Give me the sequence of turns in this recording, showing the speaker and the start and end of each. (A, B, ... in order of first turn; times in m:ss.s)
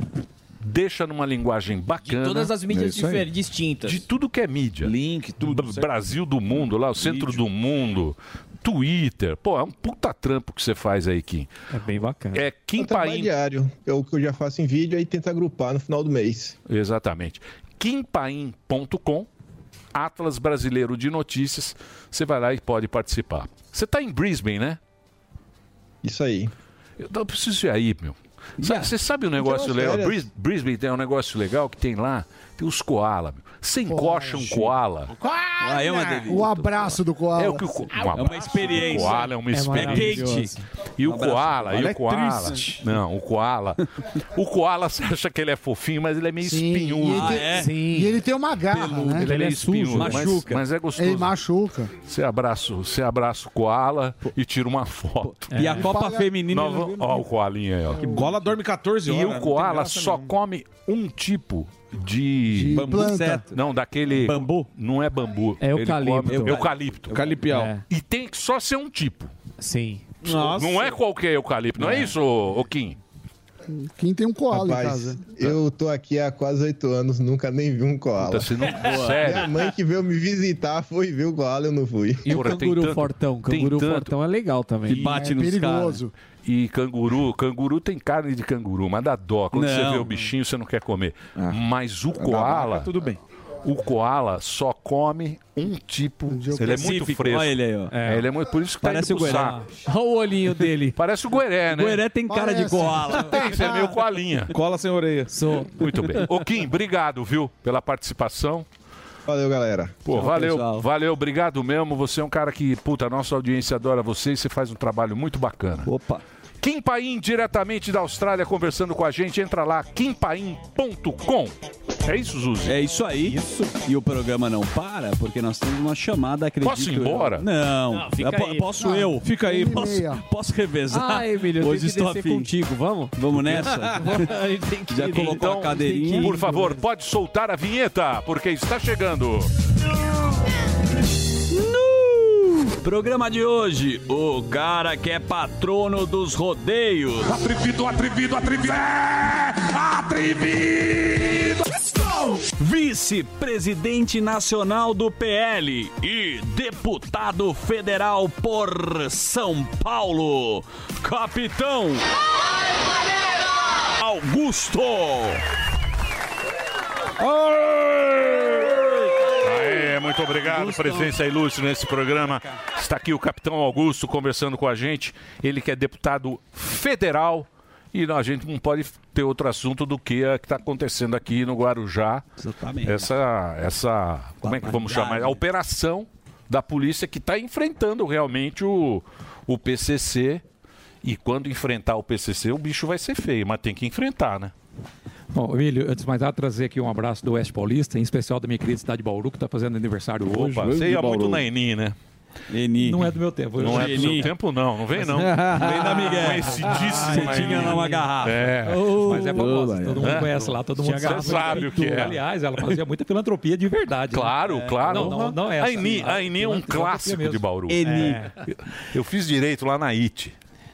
0:00.6-0:02.6 A
0:02.1-0:04.0 B
0:02.7-0:03.2 C
0:03.8-0:11.5 A
0:04.8-0:06.0 C
0:07.0-0:07.4 C
0:11.7-0:12.4 D
0:12.3-0:13.3 A
0:12.8-0:16.6 E
0:16.7-0:19.3 A
0:19.9-0:24.8 A
0:26.0-0:26.5 E
0:27.0-0:35.1 A
0:28.6-0:28.9 F
0:29.4-0:30.3 E
0:33.9-0:34.7 G
0:35.3-0:37.9 G
0:35.6-0:36.5 F
0:36.4-0:40.3 A
0:38.1-0:42.8 F
0:39.5-0:40.6 D
0:41.0-0:47.6 A
0:46.4-0:49.3 G
0:47.0-0:47.8 F
0:47.5-0:48.2 D
0:48.7-0:49.3 F
0:49.2-0:51.4 A
0:49.2-0:50.4 D
0:49.9-0:50.6 F
0:51.0-0:51.9 G
0:52.1-0:55.9 A
0:55.2-0:57.0 F
0:55.5-0:55.9 D
0:55.6-0:57.2 G
0:56.5-0:58.3 A
0:57.9-0:58.4 G
0:58.1-1:00.3 C
0:59.0-1:03.0 A
1:02.5-1:03.4 G
1:02.8-1:03.5 F
1:03.5-1:09.3 A
1:04.2-1:04.7 F
1:05.6-1:06.6 D
1:06.3-1:06.7 F
1:07.1-1:07.7 C
1:07.4-1:07.8 D
1:09.6-1:10.1 D
1:10.2-1:11.0 C
1:10.3-1:13.0 A
1:13.7-1:15.2 G
1:14.5-1:18.6 E
1:18.2-1:19.6 A
1:18.8-1:19.5 F
1:19.2-1:22.3 E
1:22.2-1:25.1 D
1:22.3-1:24.1 A
1:24.9-1:26.0 F
1:24.9-1:26.1 G
1:26.4-1:32.9 A
1:29.5-1:30.2 F
1:32.1-1:33.2 C
1:33.6-1:39.6 A
1:36.3-1:36.9 G
1:36.6-1:38.0 F
1:37.9-1:38.3 D
1:38.8-1:39.6 F
1:39.3-1:41.0 D
1:40.9-1:42.1 A
1:41.7-1:43.7 F
1:42.3-1:43.3 G
1:43.2-1:44.5 A
1:44.5-1:45.4 C
1:45.3-1:45.7 D
1:45.8-1:48.7 A
1:49.3-1:50.0 E
1:50.0-1:55.9 A
1:50.1-1:50.9 F
1:55.8-1:56.2 F
1:56.6-2:01.5 A
2:02.0-2:02.8 A
2:02.6-2:12.5 F
2:06.6-2:07.5 A
2:07.9-2:08.9 D
2:08.8-2:10.2 G
2:09.2-2:09.8 C
2:10.9-2:16.8 D
2:13.2-2:14.3 F
2:14.9-2:16.4 F
2:15.1-2:19.5 A
2:21.5-2:27.4 F
2:27.4-2:31.1 A
2:32.0-2:42.0 F
2:44.0-2:45.4 F
2:47.2-2:48.8 F
2:49.4-3:02.3 A
2:50.3-2:51.1 F
2:52.3-2:52.6 F
3:02.4-3:03.1 F
3:02.8-3:10.4 A
3:04.4-3:05.4 F
3:11.0-3:14.5 A
3:15.3-3:20.5 H
3:20.3-3:22.0 A
3:20.7-3:21.3 C
3:22.5-3:24.3 F
3:22.8-3:24.3 H
3:23.6-3:32.2 A
3:25.2-3:25.9 C
3:25.2-3:29.7 F
3:27.6-3:28.1 D
3:29.0-3:37.5 H
3:29.4-3:30.0 C
3:31.3-3:31.7 D
3:34.1-3:40.3 A
3:34.4-3:35.4 D
3:37.7-3:38.3 F
3:37.8-3:38.3 D